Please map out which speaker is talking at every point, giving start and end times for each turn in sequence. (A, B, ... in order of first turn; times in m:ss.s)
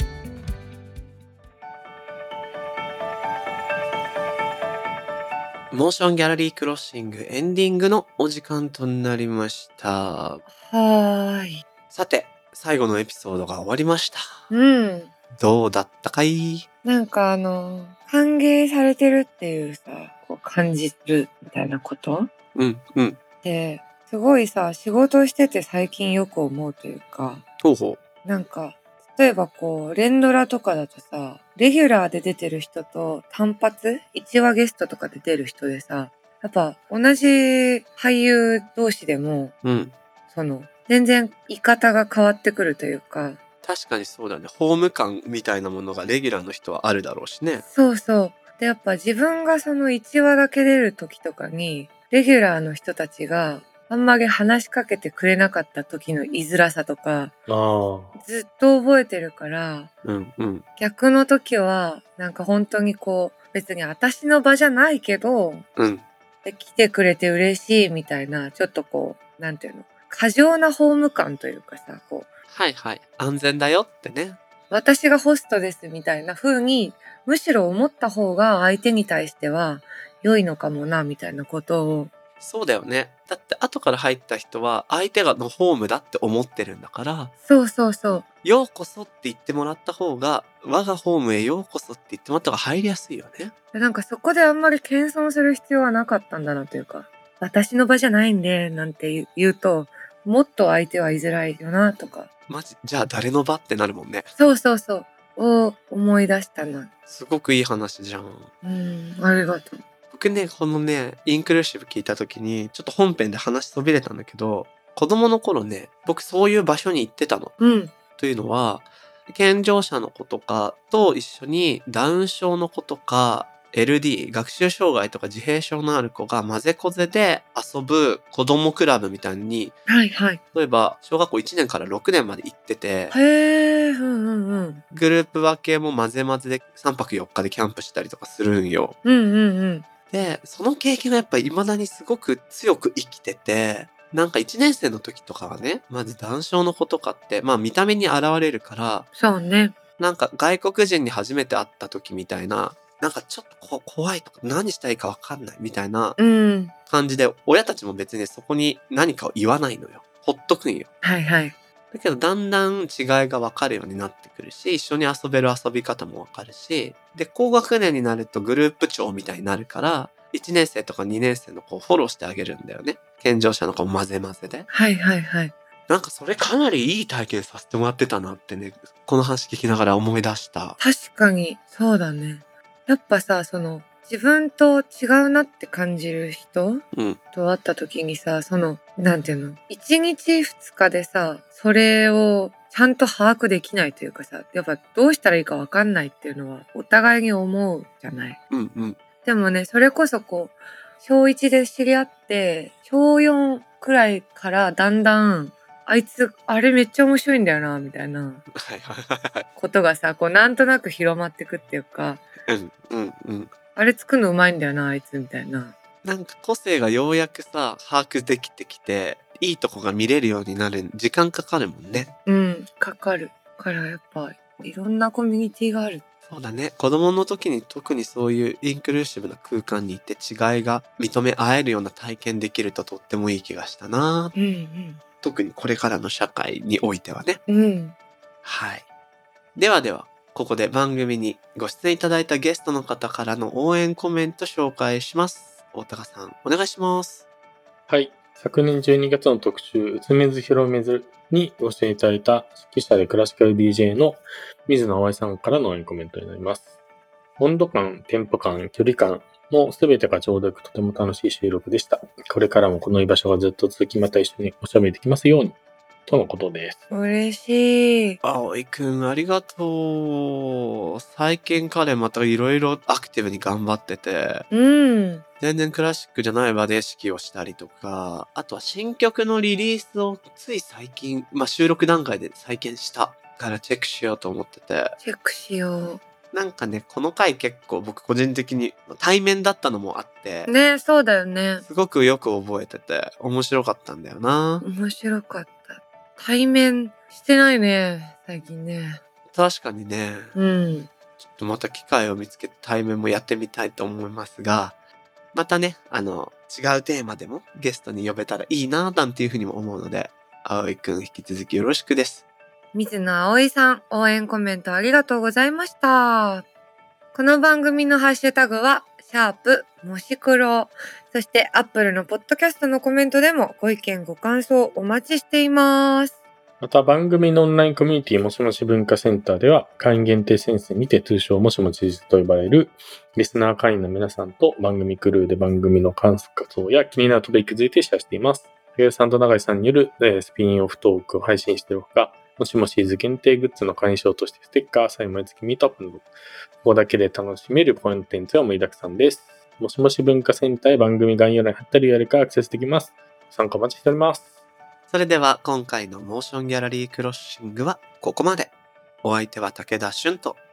0:05.7-0:10.4 A
0:10.6-0:11.6 B
0:11.9-0:14.4 A
0:14.5-0:15.1 B
0:15.4-0:16.7 A
0:16.8-0:22.3 B
0:22.6-0:23.2 A
0:23.4-0:27.4 B
0:27.6-0:28.0 A
0:28.2-0:39.5 B
0:39.6-0:40.0 A
0:40.3-0:43.4 B
0:43.6-0:47.6 A
0:47.7-0:57.3 B
0:57.5-0:58.2 C
0:58.2-0:59.9 B
1:00.0-1:00.6 A
1:00.8-1:05.7 B
1:05.8-1:06.0 A
1:06.4-1:12.3 B
1:12.5-1:14.4 A
1:14.7-1:22.1 B
1:22.4-1:27.3 A
1:27.5-1:28.2 B
1:28.4-1:33.5 A
1:33.7-1:42.3 B
1:42.5-1:44.3 A
1:44.4-1:46.9 B
1:47.1-1:48.5 A
1:48.6-1:49.8 B
1:50.1-1:57.6 A
1:57.6-1:57.9 B
1:58.2-2:09.8 A
2:09.9-2:10.4 B
2:10.5-2:13.2 A
2:13.1-2:14.8 B
2:14.9-2:19.0 A
2:19.0-2:19.9 B
2:20.1-2:29.1 A
2:29.2-2:29.8 B
2:30.0-2:36.2 A
2:36.2-2:36.7 B
2:36.9-2:40.9 A
2:41.0-2:41.6 B
2:41.9-2:54.7 A
2:54.7-2:55.5 B
2:55.9-3:00.8 A
3:00.8-3:06.8 B
3:06.9-3:07.2 A
3:07.3-3:18.4 B
3:18.5-3:19.0 A
3:19.2-3:28.4 B
3:28.6-3:29.5 A
3:29.6-3:32.2 B
3:32.5-3:33.5 A
3:33.8-3:35.7 B
3:36.0-3:42.1 A
3:42.3-3:46.0 B
3:46.3-3:54.4 A
3:54.4-3:55.0 B
3:55.2-3:57.4 A
3:57.5-3:58.0 B
3:58.4-3:58.8 A
3:59.6-4:07.2 A
4:07.9-4:16.7 C
4:17.4-4:26.8 C
4:26.9-4:28.2 B
4:28.2-4:34.5 A
4:34.5-4:35.2 B
4:35.4-4:45.0 A
4:45.0-4:46.0 B
4:46.3-4:50.5 A
4:50.5-4:51.6 B
4:51.6-4:54.6 A
4:54.6-4:59.0 B
4:59.3-5:00.4 A
5:00.4-5:00.9 B
5:01.2-5:04.8 A
5:05.3-5:12.2 A
5:12.7-5:16.5 B
5:17.1-5:26.2 B
5:26.6-5:46.1 C
5:46.6-5:54.3 C
5:54.9-5:58.5 A
5:59.0-6:00.4 A